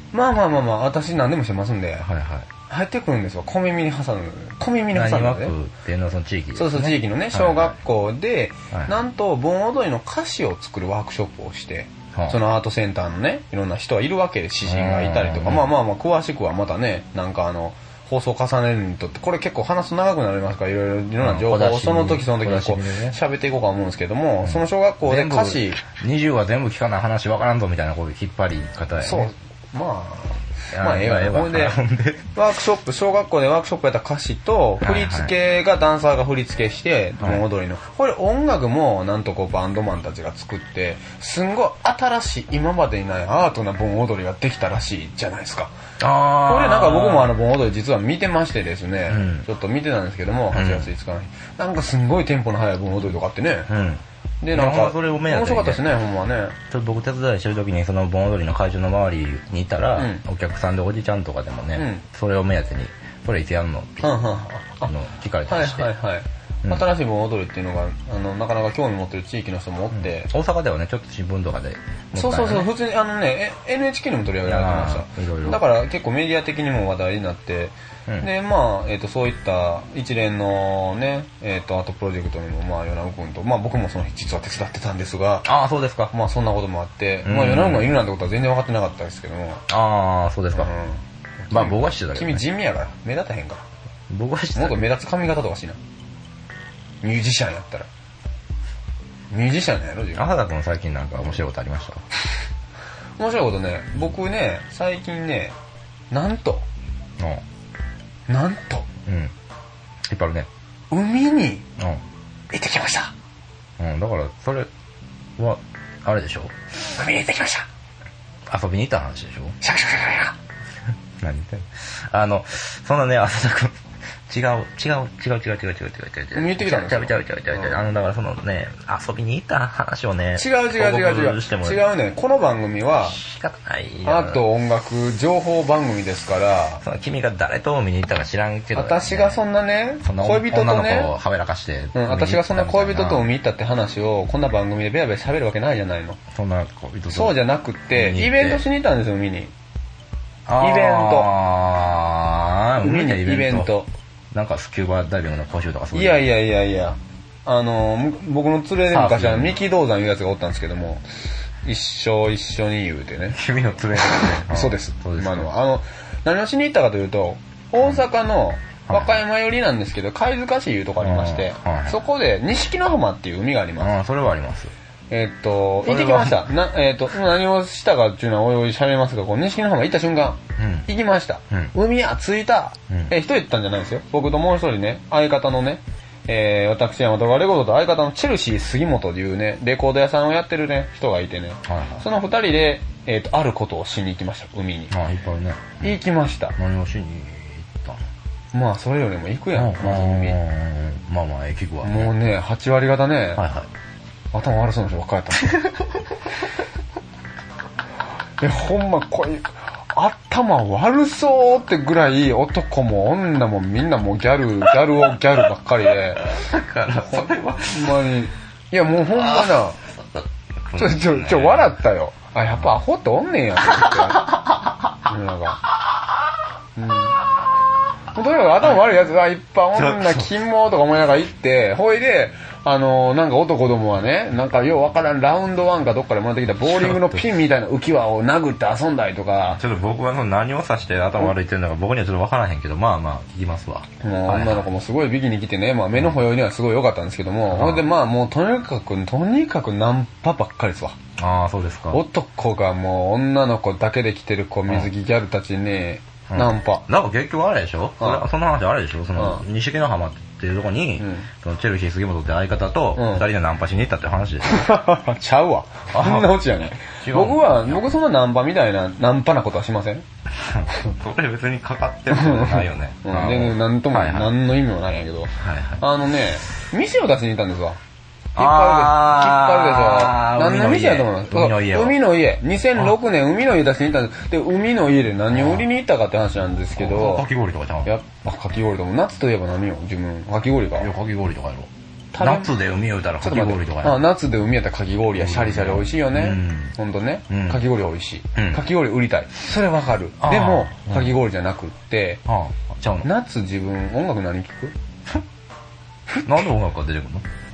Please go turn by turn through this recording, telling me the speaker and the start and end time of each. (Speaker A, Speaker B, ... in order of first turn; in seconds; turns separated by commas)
Speaker A: 0.1-2.1, Speaker B: 2.0-2.5, Speaker A: 2.7-5.5, Speaker B: 4.9-7.8, Speaker A: 6.5-25.8, Speaker B: 14.7-15.7, Speaker B: 21.2-23.2, Speaker B: 24.4-29.3, Speaker A: 29.0-31.8, Speaker B: 30.7-32.3, Speaker A: 32.3-45.7, Speaker B: 34.8-35.3, Speaker B: 46.0-47.3, Speaker A: 46.5-53.7, Speaker B: 49.1-49.5, Speaker B: 50.5-50.9, Speaker B: 53.7-55.8, Speaker A: 54.4-56.6, Speaker B: 56.7-64.3, Speaker A: 60.0-60.2, Speaker A: 61.8-62.0, Speaker A: 64.0-64.9, Speaker B: 64.8-65.9, Speaker A: 65.5-70.3, Speaker B: 69.9-72.7, Speaker A: 72.2-85.5, Speaker B: 74.5-75.7, Speaker B: 85.5-86.1, Speaker A: 86.1-89.6, Speaker B: 87.2-87.9, Speaker B: 89.7-90.7, Speaker A: 90.5-93.7, Speaker B: 91.5-92.5, Speaker B: 94.1-94.8, Speaker A: 94.6-95.8, Speaker A: 97.0-97.9, Speaker A: 99.3-100.3, Speaker B: 100.2-102.0, Speaker A: 103.2-105.5, Speaker A: 106.1-106.7, Speaker A: 108.3-108.9, Speaker B: 109.1-109.3, Speaker B: 110.0-110.5, Speaker A: 110.9-111.7, Speaker B: 111.8-112.0, Speaker A: 112.5-113.1, Speaker B: 113.8-114.7, Speaker B: 115.4-116.5, Speaker A: 116.8-117.7, Speaker B: 118.5-119.6, Speaker A: 119.6-120.4, Speaker B: 121.2-123.8, Speaker B: 124.3-131.8, Speaker A: 126.3-127.8, Speaker A: 130.4-133.2, Speaker B: 133.0-134.4, Speaker A: 134.1-136.8, Speaker B: 136.8-139.4, Speaker A: 138.7-141.1, Speaker B: 140.0-143.3, Speaker A: 141.9-146.2, Speaker B: 146.3-147.4, Speaker A: 147.1-149.5, Speaker B: 147.9-148.7, Speaker B: 150.5-153.7, Speaker A: 150.6-151.3, Speaker A: 152.8-153.9, Speaker B: 154.3-156.2, Speaker A: 155.9-161.1, Speaker B: 158.9-159.6, Speaker A: 161.7-163.4, Speaker B: 163.3-165.5, Speaker A: 164.0-174.0, Speaker B: 168.9-169.2, Speaker B: 171.0-172.0, Speaker B: 173.8-174.7, Speaker A: 175.1-194.9, Speaker B: 175.8-176.5, Speaker B: 180.6-180.9, Speaker B: 191.7-192.1, Speaker B: 194.9-196.0, Speaker A: 195.8-196.6, Speaker B: 196.6-198.1, Speaker A: 198.5-200.4, Speaker B: 199.6-202.1, Speaker A: 201.8-203.4, Speaker B: 203.4-203.7, Speaker A: 204.3-205.6, Speaker A: 208.4-216.4, Speaker B: 216.2-218.1, Speaker A: 217.1-219.8, Speaker B: 219.1-221.8, Speaker A: 220.8-224.3, Speaker B: 223.6-225.0, Speaker A: 225.1-225.6, Speaker A: 226.8-227.2, Speaker A: 228.1-239.6, Speaker B: 229.7-230.3, Speaker B: 236.6-237.3, Speaker B: 239.6-244.7, Speaker A: 244.0-251.0, Speaker B: 247.5-247.9, Speaker B: 251.2-252.0, Speaker A: 251.9-256.9, Speaker B: 256.3-264.7, Speaker A: 258.0-258.3, Speaker A: 259.2-259.4, Speaker A: 261.0-261.3, Speaker A: 263.0-263.2, Speaker A: 264.5-270.1, Speaker B: 265.9-267.9, Speaker B: 270.3-274.3, Speaker A: 272.1-277.8, Speaker B: 275.4-275.8, Speaker A: 278.4-287.3, Speaker B: 278.4-282.0, Speaker B: 285.3-285.7, Speaker B: 286.8-287.9, Speaker A: 287.9-290.9, Speaker B: 290.8-294.0, Speaker A: 292.1-292.5, Speaker A: 293.2-302.2, Speaker B: 295.2-296.8, Speaker B: 297.3-297.6, Speaker B: 298.4-298.6, Speaker B: 300.2-301.2, Speaker B: 302.3-303.1, Speaker A: 303.0-304.8, Speaker A: 306.1-306.5, Speaker B: 306.2-307.2